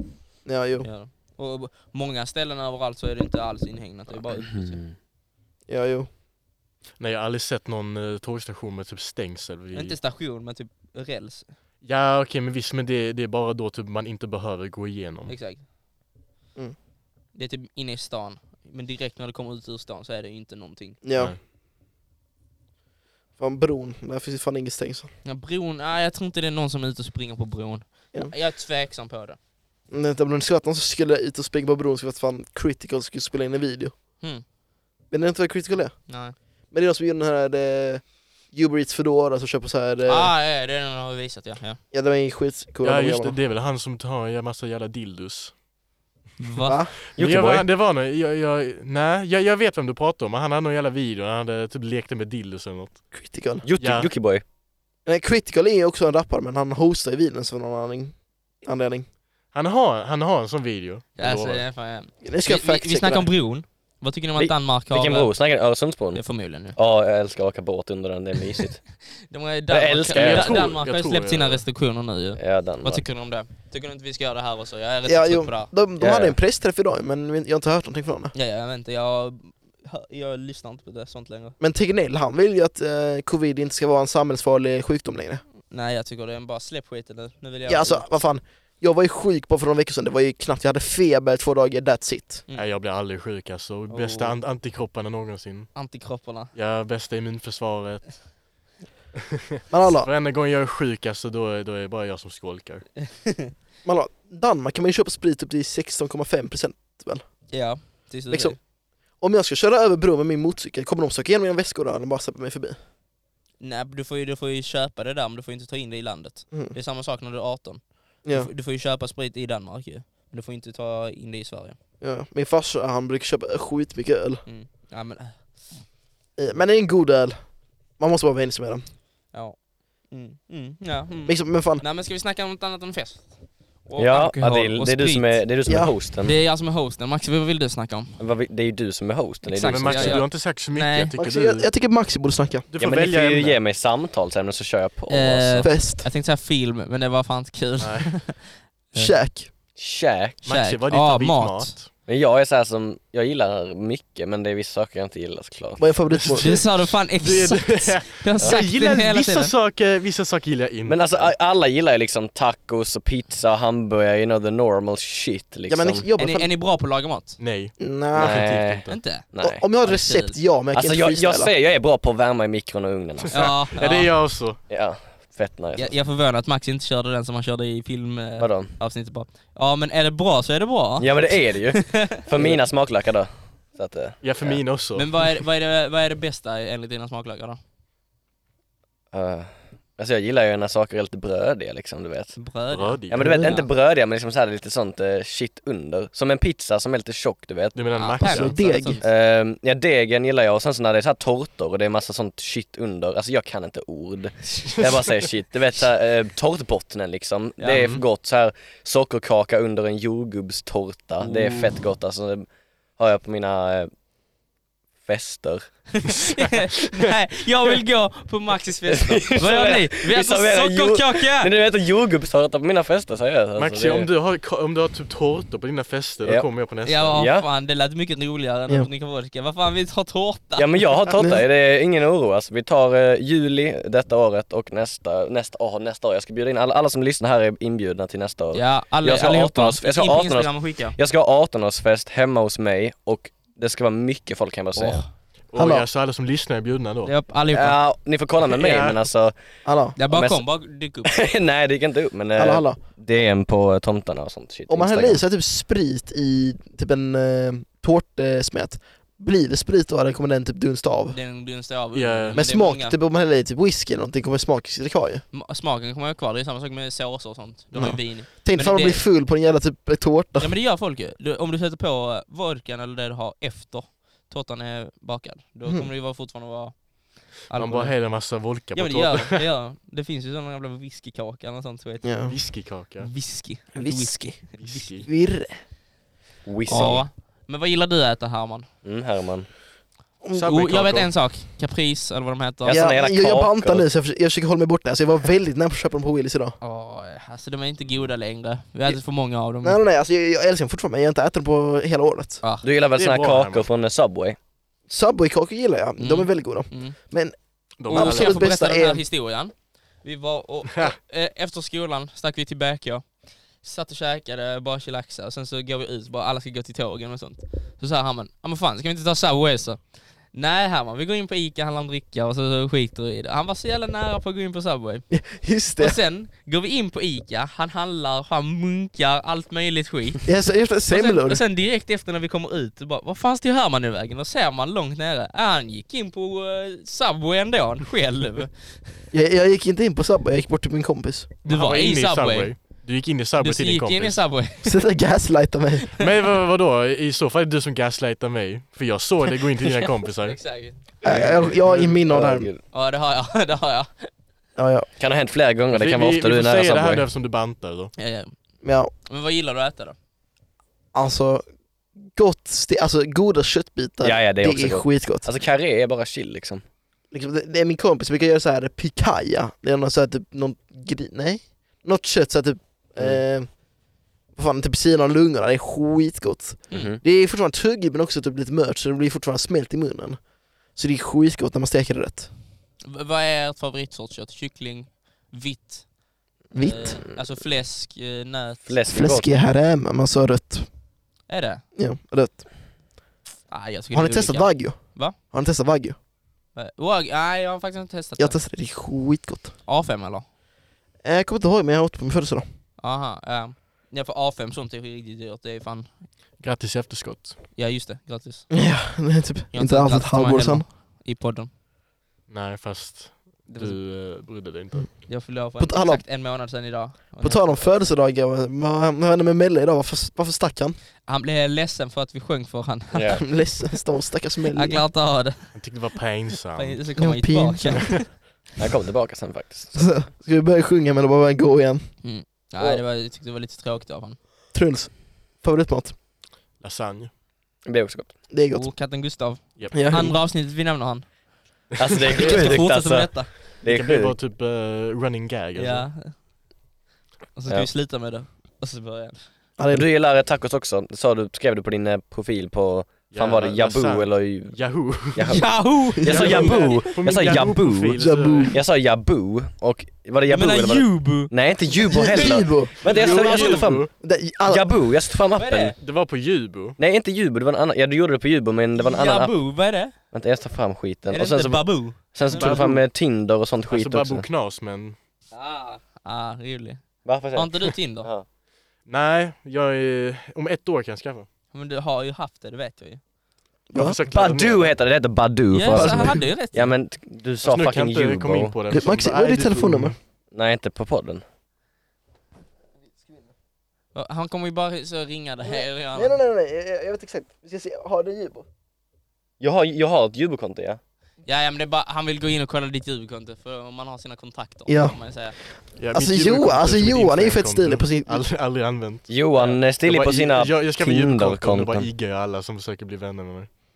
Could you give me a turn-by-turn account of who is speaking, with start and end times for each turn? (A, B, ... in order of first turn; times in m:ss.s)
0:00.4-0:00.9 A
0:00.8-0:04.8 B
0:04.3-0:05.0 C
0:05.7-0:06.1 A
0:07.0-0:10.0 D
0:09.7-0:11.5 B
0:11.8-0:15.3 D
0:15.3-0:15.6 B
0:17.3-0:21.0 B
0:21.0-0:21.4 A
0:23.4-0:25.1 A
0:25.2-0:29.4 B
0:29.9-0:33.9 A
0:35.1-0:36.2 A
0:36.1-0:36.4 B
0:36.7-0:40.3 A
0:40.1-0:41.8 B
0:41.9-0:43.4 A
0:42.8-0:45.5 D
0:46.4-0:46.8 B
0:46.6-0:46.9 A
0:47.1-0:53.1 D
0:47.2-0:47.7 C
0:53.1-0:53.6 A
0:53.6-0:54.4 C
0:53.8-0:54.1 D
0:55.0-0:59.1 A
0:59.5-1:01.6 D
1:01.2-1:05.4 B
1:02.2-1:03.3 A
1:04.4-1:08.9 C
1:06.1-1:06.8 B
1:09.2-1:15.8 B
1:09.7-1:10.7 C
1:10.1-1:11.6 D
1:12.4-1:13.0 C
1:15.1-1:18.3 A
1:16.0-1:16.4 C
1:18.3-1:21.6 B
1:21.6-1:25.4 A
1:25.7-1:28.1 B
1:27.7-1:32.4 A
1:32.5-1:35.7 D
1:33.9-1:34.4 B
1:35.8-1:36.5 B
1:36.5-1:38.4 D
1:39.7-1:40.1 A
1:39.8-1:42.9 D
1:43.1-1:43.5 B
1:43.8-1:47.2 A
1:47.5-1:48.6 B
1:48.3-1:48.6 A
1:49.2-1:52.8 A
1:53.6-2:01.8 B
2:02.0-2:04.4 A
2:04.5-2:05.6 B
2:06.4-2:08.8 A
2:09.3-2:15.5 B
2:11.3-2:11.8 A
2:14.0-2:16.4 C
2:15.7-2:15.9 A
2:16.2-2:18.2 B
2:18.2-2:20.2 C
2:19.4-2:21.1 B
2:19.6-2:21.7 D
2:21.2-2:22.7 A
2:22.7-2:23.6 D
2:22.8-2:25.7 C
2:25.1-2:29.2 B
2:25.6-2:26.1 A
2:27.8-2:28.1 D
2:28.9-2:29.5 A
2:29.8-2:30.4 C
2:30.4-2:31.9 D
2:30.4-2:31.8 B
2:32.1-2:36.0 C
2:35.8-2:36.6 A
2:36.1-2:41.3 D
2:36.4-2:39.5 B
2:40.9-2:46.0 C
2:45.7-2:46.5 A
2:46.2-2:47.4 B
2:47.4-2:49.0 D
2:47.8-2:48.4 A
2:48.2-2:49.6 C
2:48.9-2:49.3 B
2:49.4-2:51.5 A
2:49.8-2:50.4 B
2:50.7-2:53.6 C
2:53.3-2:54.6 D
2:53.3-2:54.1 B
2:54.7-2:56.0 C
2:55.8-3:02.2 B
2:58.4-2:58.7 C
3:01.0-3:04.6 C
3:04.2-3:05.1 D
3:05.0-3:07.6 B
3:09.1-3:12.4 C
3:12.4-3:13.7 B
3:12.7-3:13.3 D
3:13.1-3:17.9 C
3:13.2-3:13.6 A
3:17.8-3:18.9 D
3:18.0-3:19.0 B
3:18.2-3:19.0 A
3:19.0-3:33.9 C
3:27.6-3:27.9 B
3:27.7-3:28.0 D
3:31.2-3:31.5 B
3:35.0-3:36.1 C
3:35.9-3:41.5 B
3:38.9-3:44.1 C
3:43.6-3:47.2 D
3:46.9-3:51.1 B
3:47.1-3:47.5 C
3:50.6-4:05.0 C
3:51.2-3:51.4 A
3:58.5-4:01.0 B
4:04.8-4:05.1 B
4:05.5-4:07.1 D
4:05.6-4:05.9 A
4:07.0-4:07.8 B
4:07.5-4:09.3 C
4:08.5-4:09.0 D
4:09.6-4:10.0 A
4:10.0-4:11.3 B
4:10.1-4:10.4 C
4:11.1-4:15.2 C
4:12.4-4:12.8 A
4:14.7-4:21.2 A
4:21.1-4:23.0 B
4:21.9-4:22.4 D
4:22.4-4:25.2 A
4:25.3-4:29.0 B
4:27.8-4:30.5 A
4:30.4-4:42.3 B
4:37.5-4:39.4 D
4:42.0-4:42.4 A
4:42.3-4:43.1 D
4:43.0-4:44.9 B
4:43.8-4:45.5 A
4:44.6-4:45.1 D
4:46.5-4:47.1 C
4:46.7-4:48.7 B
4:48.8-4:49.5 C
4:50.3-4:51.1 D
4:50.4-4:52.8 B
4:52.6-4:53.9 C
4:52.6-4:56.6 A
4:56.6-4:59.8 B
4:59.6-5:02.4 A
5:02.6-5:04.4 C
5:03.0-5:03.7 D
5:04.9-5:09.0 A
5:06.0-5:07.0 B
5:07.8-5:08.4 D
5:07.9-5:25.3 B
5:25.1-5:26.0 A
5:25.8-5:39.0 B
5:30.2-5:31.4 A
5:39.1-5:41.3 A
5:41.4-5:44.2 D
5:41.5-5:44.8 B
5:44.6-5:45.9 A
5:46.0-5:52.0 D
5:50.2-5:50.8 B
5:51.0-5:52.5 A
5:51.0-5:52.6 C
5:52.7-5:54.1 B
5:54.6-5:54.9 A
5:55.0-5:57.0 C
5:55.7-5:57.9 D
5:58.0-5:58.3 B
5:58.6-5:58.9 A
5:59.1-6:00.0 B
6:00.9-6:01.4 A
6:02.0-6:05.3 A
6:04.0-6:06.6 C
6:07.1-6:13.6 A
6:14.4-6:20.2 A
6:16.7-6:17.0 C
6:20.8-6:22.3 A
6:22.8-6:25.9 B
6:26.5-6:28.7 B
6:26.5-6:27.0 A
6:28.7-6:29.3 C
6:28.9-6:30.7 A
6:31.3-6:31.6 B
6:31.8-6:32.5 A
6:33.5-6:35.2 B
6:33.9-6:36.0 A
6:36.6-6:38.4 B
6:38.2-6:39.6 A
6:39.7-6:40.3 B
6:41.0-6:42.4 A
6:42.8-6:46.0 B
6:46.4-6:47.4 D
6:47.6-6:48.6 B
6:48.5-6:50.6 A
6:49.5-6:51.5 B
6:52.3-6:54.9 D
6:53.5-6:53.8 B
6:55.1-6:57.6 B
6:55.6-6:56.0 A
6:57.2-7:00.8 A
7:01.1-7:03.4 B
7:02.9-7:03.2 C
7:03.1-7:04.8 A
7:04.5-7:05.7 B
7:05.5-7:06.8 D
7:06.6-7:08.1 B
7:07.0-7:08.1 A
7:08.6-7:09.8 C
7:09.7-7:11.9 A
7:12.0-7:14.2 B
7:14.5-7:16.0 A
7:16.6-7:17.1 D
7:17.6-7:18.2 C
7:18.3-7:18.7 A
7:18.5-7:21.1 B
7:19.6-7:20.2 D
7:19.7-7:20.2 A
7:21.8-7:22.6 D
7:21.8-7:24.2 C
7:22.1-7:23.5 B
7:23.6-7:25.9 D
7:25.6-7:26.2 B
7:27.4-7:29.2 B
7:29.6-7:29.9 A
7:29.7-7:38.0 C
7:33.1-7:38.6 D
7:35.3-7:36.8 B
7:36.0-7:36.7 A
7:38.0-7:38.6 A
7:38.5-7:43.9 C
7:40.3-7:43.6 B
7:41.9-7:42.8 A
7:42.8-7:43.9 D
7:43.9-7:44.7 A
7:44.4-7:45.8 C
7:45.4-7:45.8 B
7:45.8-7:46.8 D
7:46.8-7:49.6 C
7:48.8-7:50.0 B
7:50.1-7:54.3 C
7:51.1-7:52.6 B
7:52.2-7:52.9 D
7:53.7-7:55.0 D
7:55.3-7:58.1 B
7:57.0-7:58.2 C
7:58.9-8:01.3 D
8:01.5-8:03.0 B
8:03.7-8:04.0 A
8:03.8-8:04.7 D
8:04.1-8:08.6 C
8:05.5-8:06.7 B
8:05.7-8:06.1 A
8:07.4-8:10.0 D
8:08.7-8:10.0 A
8:10.3-8:11.2 C
8:13.9-8:16.2 B
8:15.4-8:18.5 A
8:19.4-8:20.8 C
8:21.2-8:25.4 B
8:24.7-8:28.2 A
8:25.8-8:33.5 D
8:29.1-8:31.9 C